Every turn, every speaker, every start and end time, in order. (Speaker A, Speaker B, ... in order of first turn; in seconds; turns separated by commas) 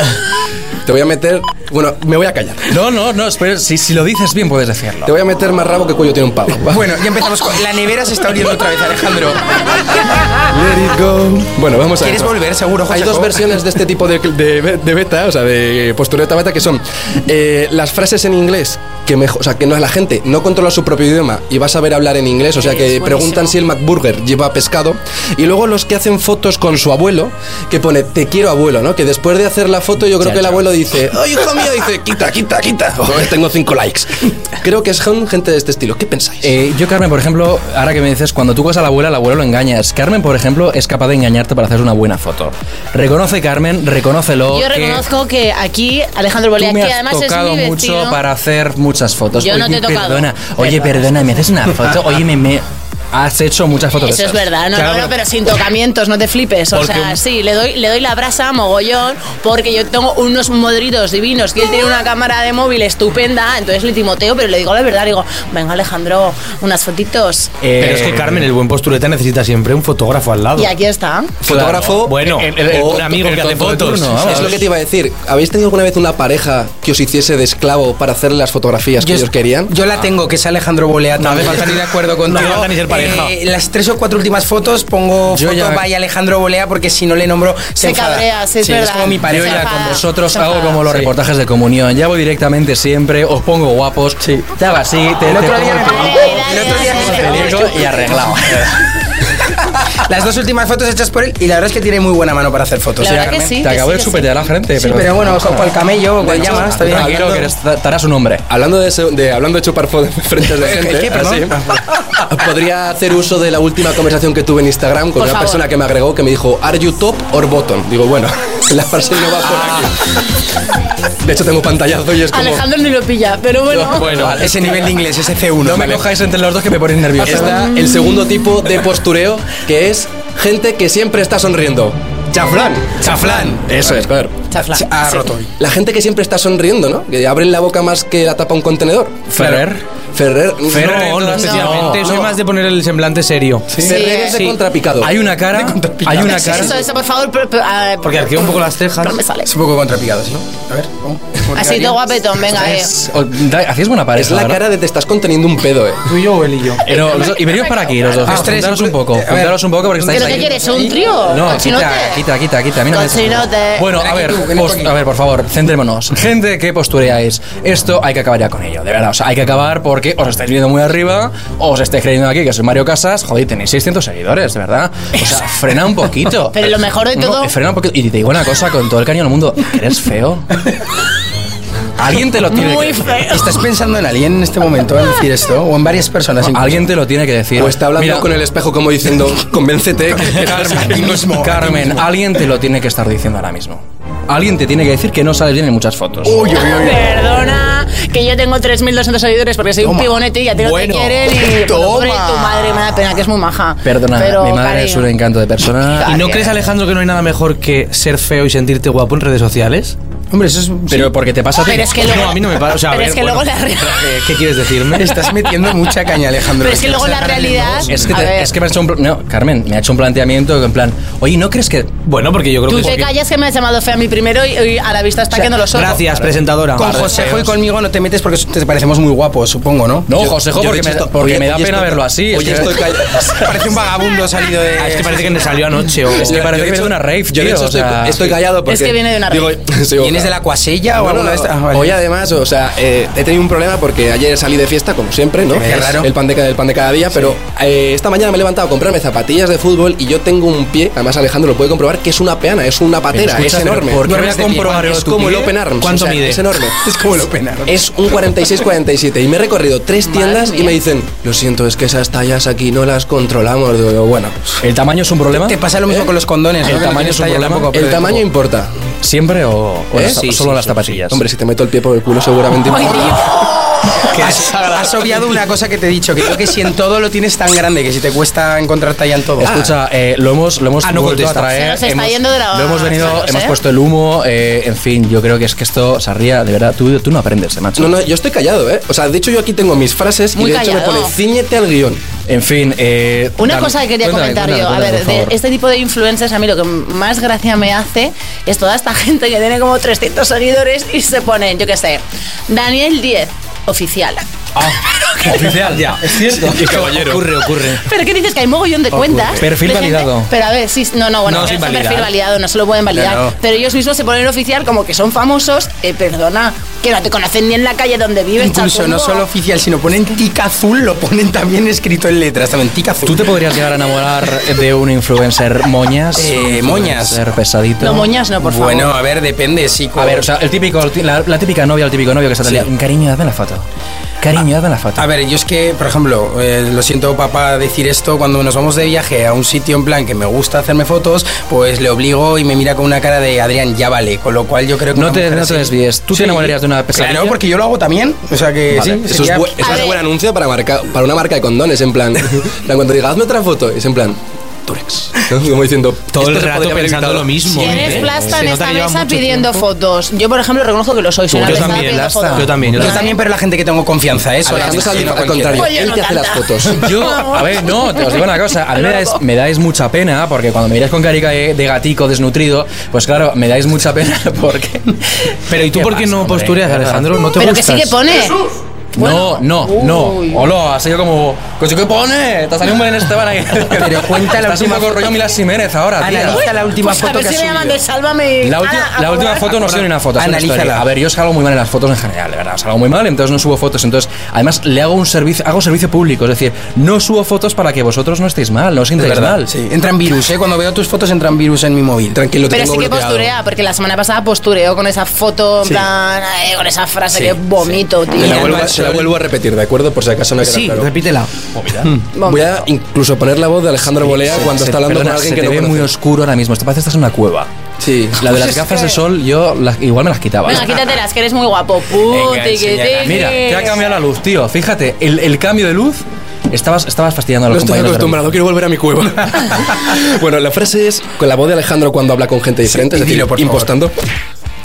Speaker A: 0.8-2.8, Speaker B: 2.7-5.1, Speaker A: 5.0-6.9, Speaker C: 6.6-10.0, Speaker A: 10.4-36.5, Speaker C: 12.0-13.6, Speaker D: 22.6-23.5, Speaker B: 30.2-30.7, Speaker B: 36.4-45.0, Speaker D: 44.5-48.2, Speaker B: 46.6-54.5, Speaker D: 49.4-51.1, Speaker D: 54.0-67.5, Speaker E: 54.8-55.1, Speaker E: 56.7-57.1, Speaker B: 67.6-68.5, Speaker E: 67.8-70.7, Speaker D: 70.5-71.3, Speaker A: 71.4-73.3, Speaker B: 71.4-74.6, Speaker E: 71.6-74.6, Speaker A: 74.2-79.7, Speaker C: 79.0-89.9, Speaker E: 81.2-83.3, Speaker B: 85.3-85.8, Speaker D: 87.8-90.8, Speaker B: 89.2-98.8, Speaker C: 94.2-94.5, Speaker C: 95.2-98.7, Speaker D: 95.8-98.0, Speaker C: 99.9-103.6, Speaker D: 103.0-104.3, Speaker B: 103.5-108.5, Speaker C: 104.7-107.5, Speaker A: 106.3-107.2, Speaker A: 108.5-111.6, Speaker C: 110.5-111.8, Speaker A: 112.2-120.0, Speaker D: 115.2-115.6, Speaker A: 121.2-122.7, Speaker D: 122.3-124.1, Speaker B: 123.8-124.9, Speaker E: 123.9-124.6, Speaker C: 124.1-126.1, Speaker B: 125.6-127.7, Speaker A: 127.2-134.4, Speaker C: 133.0-133.9, Speaker D: 134.5-135.3, Speaker C: 134.7-135.5, Speaker A: 135.6-139.5, Speaker B: 139.3-139.8, Speaker E: 139.4-139.6, Speaker A: 140.1-141.4, Speaker B: 140.7-142.2, Speaker E: 140.7-144.6, Speaker D: 141.4-141.9, Speaker A: 141.9-142.3, Speaker C: 143.7-144.0, Speaker A: 143.8-145.1, Speaker D: 143.8-144.3, Speaker B: 145.0-146.8, Speaker C: 145.5-146.8, Speaker D: 146.2-149.5, Speaker E: 148.0-149.2, Speaker C: 149.4-152.1, Speaker D: 151.5-152.9, Speaker B: 152.4-154.6, Speaker A: 154.2-156.2, Speaker E: 156.1-156.8, Speaker B: 156.8-160.6, Speaker D: 156.9-158.1, Speaker C: 158.2-161.0, Speaker D: 160.1-162.2, Speaker B: 161.2-180.5, Speaker D: 162.9-163.9, Speaker C: 163.9-164.9, Speaker D: 176.5-177.5, Speaker B: 182.0-183.3, Speaker D: 182.5-183.5, Speaker C: 183.3-186.9, Speaker B: 186.5-188.3, Speaker A: 187.6-191.2, Speaker B: 190.4-196.4, Speaker C: 190.4-192.1, Speaker C: 196.2-197.1, Speaker D: 196.4-205.1, Speaker C: 199.8-200.2, Speaker C: 200.7-202.9, Speaker B: 203.8-206.3, Speaker D: 205.9-206.4, Speaker E: 206.0-209.9, Speaker C: 210.3-211.1, Speaker B: 210.9-211.9, Speaker D: 211.6-214.2, Speaker E: 211.9-215.3, Speaker C: 214.9-218.1, Speaker D: 216.6-218.5, Speaker B: 217.9-222.0, Speaker E: 222.0-223.1, Speaker D: 222.7-226.0, Speaker E: 225.7-227.5, Speaker C: 226.7-230.2, Speaker B: 230.1-233.4, Speaker A: 230.2-233.4, Speaker C: 233.2-235.6, Speaker E: 234.8-236.4, Speaker A: 236.1-240.4, Speaker B: 236.2-238.4, Speaker D: 238.7-239.6, Speaker C: 240.0-242.0, Speaker A: 240.9-254.1, Speaker C: 245.5-246.1, Speaker B: 253.1-255.5, Speaker E: 254.0-256.4, Speaker A: 254.8-256.8, Speaker C: 256.8-257.9, Speaker A: 257.6-264.4, Speaker D: 260.0-260.8, Speaker B: 264.6-265.6, Speaker C: 265.3-268.2, Speaker B: 266.6-267.8, Speaker A: 267.7-268.7, Speaker B: 269.0-271.2, Speaker A: 269.9-270.2, Speaker E: 270.0-271.1, Speaker A: 271.1-273.4, Speaker D: 272.9-273.5, Speaker C: 273.9-279.5, Speaker E: 274.1-275.2, Speaker B: 279.4-287.9, Speaker A: 279.4-279.7, Speaker E: 280.8-281.5, Speaker D: 281.5-283.6, Speaker A: 287.8-292.0, Speaker D: 290.3-291.1, Speaker B: 292.3-295.4, Speaker D: 293.4-304.2, Speaker B: 305.2-305.9, Speaker E: 305.2-307.8, Speaker A: 306.4-307.2, Speaker B: 307.4-307.8, Speaker D: 307.8-319.2, Speaker B: 309.4-310.3, Speaker E: 311.2-312.1, Speaker C: 312.9-313.3, Speaker C: 318.4-323.3, Speaker B: 323.0-328.1, Speaker C: 326.1-327.2, Speaker D: 327.8-328.9, Speaker C: 328.4-330.3, Speaker B: 330.0-333.6, Speaker B: 334.2-335.1, Speaker C: 334.9-349.8, Speaker B: 344.9-347.4, Speaker A: 349.0-358.0, Speaker D: 349.6-350.0, Speaker E: 356.1-359.6, Speaker D: 357.6-363.2, Speaker B: 361.3-362.9, Speaker E: 361.4-363.1, Speaker C: 362.7-365.7, Speaker A: 364.4-366.9, Speaker D: 365.5-369.2, Speaker B: 366.8-377.1, Speaker E: 375.5-378.0, Speaker D: 377.4-378.4, Speaker B: 378.9-386.5, Speaker D: 379.0-380.5, Speaker C: 383.7-385.2, Speaker C: 386.0-387.8, Speaker D: 386.2-389.5, Speaker B: 388.4-399.5, Speaker C: 389.5-390.9, Speaker C: 399.0-402.2, Speaker A: 402.1-403.3, Speaker D: 402.5-408.6, Speaker C: 407.1-407.4, Speaker A: 408.1-410.9, Speaker C: 408.2-408.8, Speaker E: 408.2-409.0, Speaker E: 410.4-411.3, Speaker B: 411.6-411.9, Speaker A: 412.2-415.9, Speaker B: 414.0-417.5, Speaker A: 417.8-418.4, Speaker B: 418.2-420.8, Speaker D: 420.4-423.8, Speaker C: 422.0-423.4, Speaker B: 423.0-428.2, Speaker A: 427.5-433.9, Speaker C: 432.7-433.7